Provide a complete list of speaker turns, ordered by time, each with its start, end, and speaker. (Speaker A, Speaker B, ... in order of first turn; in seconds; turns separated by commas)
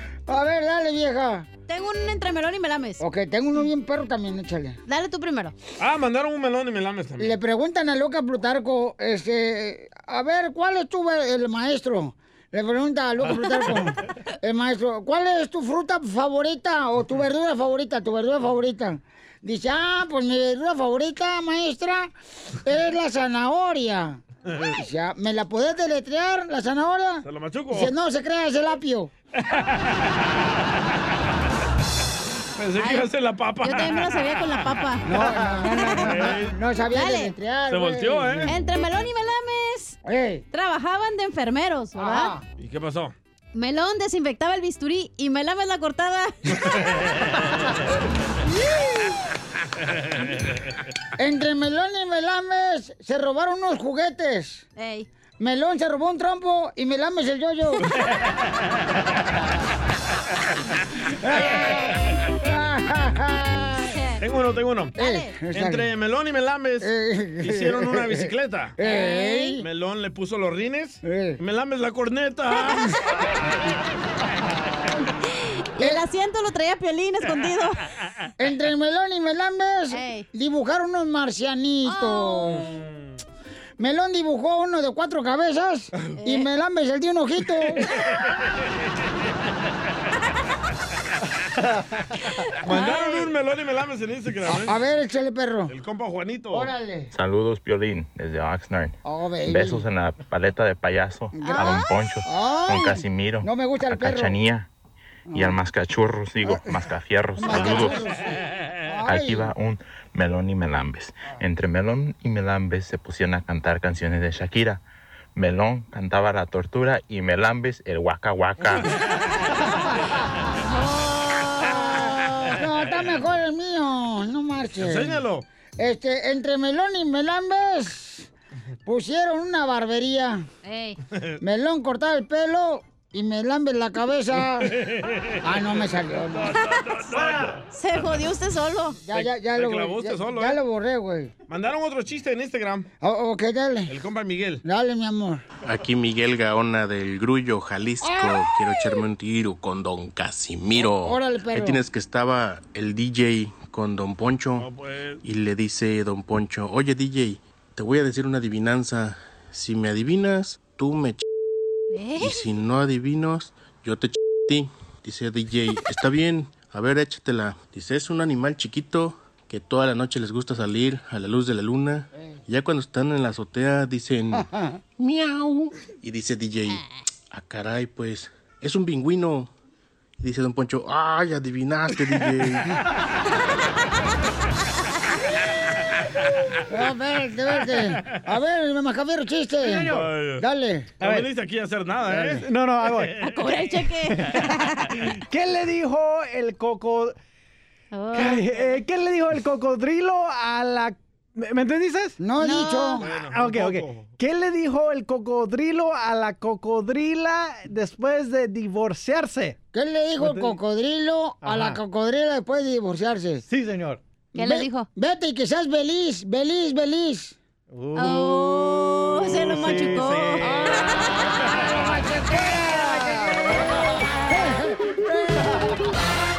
Speaker A: 0.3-1.5, Speaker B: 1.7-3.0, Speaker A: 3.0-4.8, Speaker B: 4.9-5.5, Speaker C: 5.8-7.4, Speaker A: 7.2-22.1, Speaker A: 22.6-24.2, Speaker A: 24.8-29.1, Speaker C: 27.2-27.9, Speaker C: 32.6-34.7, Speaker B: 32.8-33.1, Speaker B: 33.6-36.3, Speaker A: 35.0-38.5, Speaker C: 36.0-36.5, Speaker B: 36.9-37.4, Speaker C: 37.7-38.6, Speaker B: 38.5-40.0, Speaker A: 40.0-40.5, Speaker B: 40.5-42.4, Speaker A: 42.0-42.4, Speaker C: 42.6-43.1, Speaker B: 43.5-46.4, Speaker A: 51.2-54.6, Speaker B: 54.8-55.1, Speaker A: 55.4-57.9, Speaker A: 61.2-64.0, Speaker B: 63.9-64.2, Speaker C: 64.2-65.0, Speaker B: 65.0-65.4, Speaker A: 65.0-65.9, Speaker C: 65.5-66.9, Speaker A: 66.8-69.7, Speaker C: 67.4-68.8, Speaker B: 68.9-69.5, Speaker C: 69.6-73.0, Speaker A: 71.0-71.4, Speaker B: 75.8-77.8, Speaker A: 78.4-82.7, Speaker B: 79.9-80.3, Speaker B: 81.8-82.5, Speaker A: 83.8-87.9, Speaker B: 86.2-86.5, Speaker C: 92.6-94.8, Speaker B: 92.7-93.3, Speaker A: 94.5-95.7, Speaker C: 95.7-96.7, Speaker A: 96.5-97.1, Speaker D: 97.1-104.7, Speaker A: 99.0-99.8, Speaker A: 101.3-104.4, Speaker B: 101.4-101.8, Speaker A: 105.3-105.6, Speaker D: 105.3-108.1, Speaker A: 106.4-106.7, Speaker A: 107.4-109.5, Speaker D: 109.1-114.8, Speaker D: 115.3-118.9, Speaker B: 120.7-121.8, Speaker A: 121.7-125.2, Speaker C: 124.8-125.5, Speaker A: 125.8-128.3, Speaker A: 128.9-130.5, Speaker B: 130.6-131.0, Speaker A: 131.4-134.7, Speaker C: 134.6-135.7, Speaker A: 135.4-136.6, Speaker C: 136.5-137.6, Speaker B: 137.7-139.0, Speaker A: 139.1-141.3, Speaker C: 139.1-140.6, Speaker C: 141.5-142.9, Speaker A: 143.0-143.9, Speaker C: 143.9-144.6, Speaker A: 144.6-145.4, Speaker E: 145.6-154.7, Speaker A: 148.0-148.8, Speaker A: 150.8-151.8, Speaker C: 154.6-155.2, Speaker E: 155.2-161.2, Speaker B: 161.9-162.5, Speaker E: 162.2-179.5, Speaker E: 180.2-182.7, Speaker A: 186.7-190.9, Speaker F: 189.6-190.1, Speaker C: 189.8-190.5, Speaker F: 191.0-191.3, Speaker C: 191.0-193.2, Speaker F: 192.1-193.2, Speaker B: 193.2-195.0, Speaker F: 194.1-197.2, Speaker B: 197.9-198.4, Speaker F: 198.1-209.6, Speaker A: 202.2-203.1, Speaker C: 203.0-204.1, Speaker A: 209.7-213.4, Speaker F: 210.2-210.6, Speaker F: 211.4-211.8, Speaker F: 213.5-214.0, Speaker B: 214.4-214.9, Speaker A: 214.4-217.4, Speaker F: 217.7-218.6, Speaker B: 217.9-220.6, Speaker C: 219.4-220.1, Speaker F: 219.6-220.5, Speaker A: 220.4-225.7